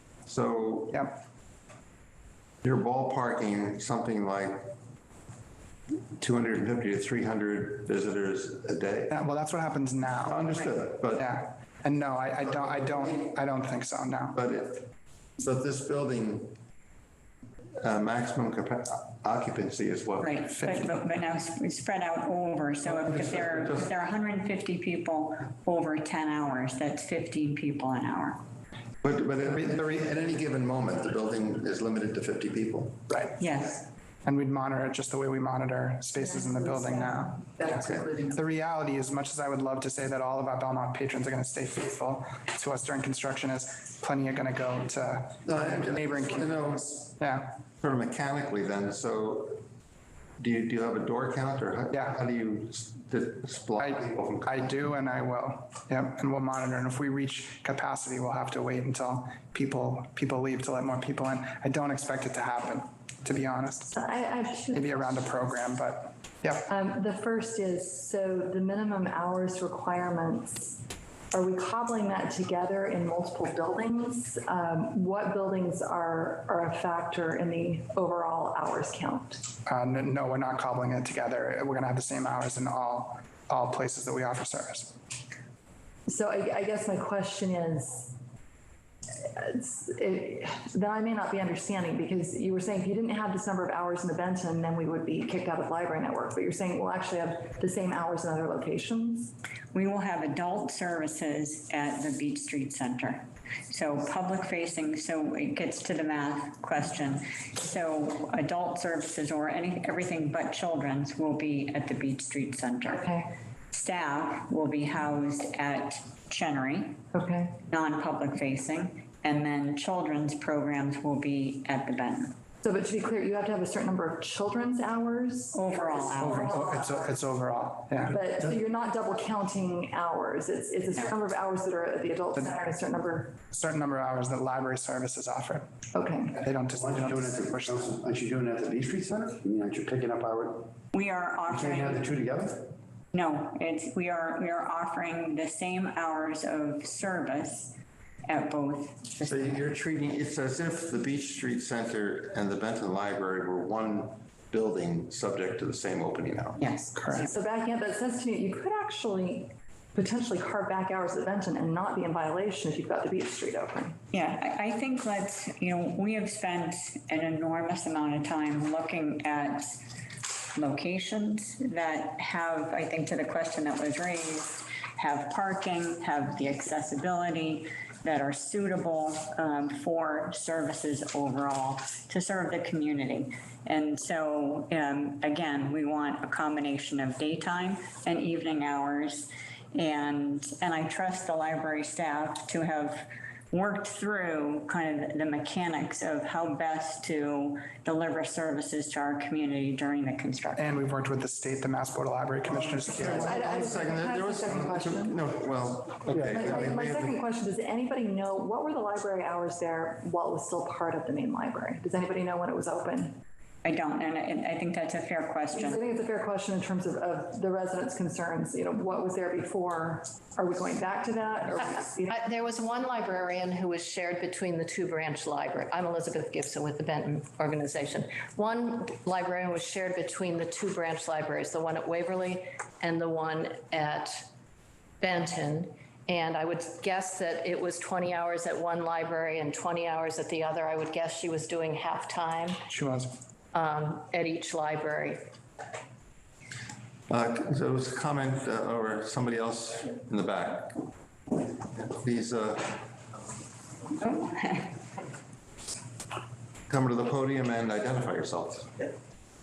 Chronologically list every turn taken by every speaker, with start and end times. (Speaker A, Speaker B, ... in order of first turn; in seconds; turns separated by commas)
Speaker A: 0.2-1.1, Speaker B: 0.9-1.2, Speaker A: 2.6-4.7, Speaker A: 6.2-9.1, Speaker B: 9.1-14.4, Speaker A: 10.2-11.3, Speaker A: 14.3-16.6, Speaker A: 17.8-20.3, Speaker C: 20.2-28.4, Speaker B: 20.5-21.0, Speaker A: 22.9-23.9, Speaker A: 29.0-33.1, Speaker C: 33.4-33.8, Speaker B: 34.2-47.5, Speaker D: 36.2-38.4, Speaker A: 45.4-47.0, Speaker A: 47.8-49.6, Speaker A: 50.4-54.7, Speaker B: 51.9-52.2, Speaker B: 53.8-64.0, Speaker D: 63.9-65.0, Speaker B: 64.7-66.7, Speaker D: 66.7-70.8, Speaker D: 71.3-79.4, Speaker B: 79.7-84.9, Speaker D: 86.1-88.1, Speaker D: 89.2-99.3, Speaker C: 99.7-113.1, Speaker D: 112.9-113.3, Speaker C: 113.7-117.0, Speaker D: 117.1-117.5, Speaker C: 117.7-122.3, Speaker D: 122.6-127.1, Speaker C: 125.5-126.7, Speaker B: 126.2-128.2, Speaker D: 128.1-133.3, Speaker B: 133.5-135.7, Speaker D: 135.9-136.4, Speaker B: 136.3-137.8, Speaker E: 136.7-140.7, Speaker C: 140.9-142.1, Speaker E: 141.5-142.7, Speaker C: 143.1-147.7, Speaker C: 148.2-149.6, Speaker A: 149.2-156.6, Speaker C: 156.6-157.3, Speaker B: 156.9-157.2, Speaker D: 157.2-163.9, Speaker C: 164.1-169.8, Speaker C: 170.5-200.7, Speaker B: 200.6-203.4, Speaker A: 202.8-207.1, Speaker D: 203.1-205.2, Speaker E: 206.1-206.7, Speaker D: 206.3-213.1, Speaker C: 213.6-215.8, Speaker D: 215.5-222.2, Speaker F: 222.1-234.3, Speaker F: 235.0-242.6, Speaker B: 242.7-243.1, Speaker F: 243.5-245.2, Speaker A: 247.1-250.8, Speaker A: 251.8-252.8, Speaker C: 254.1-254.6, Speaker A: 256.7-258.7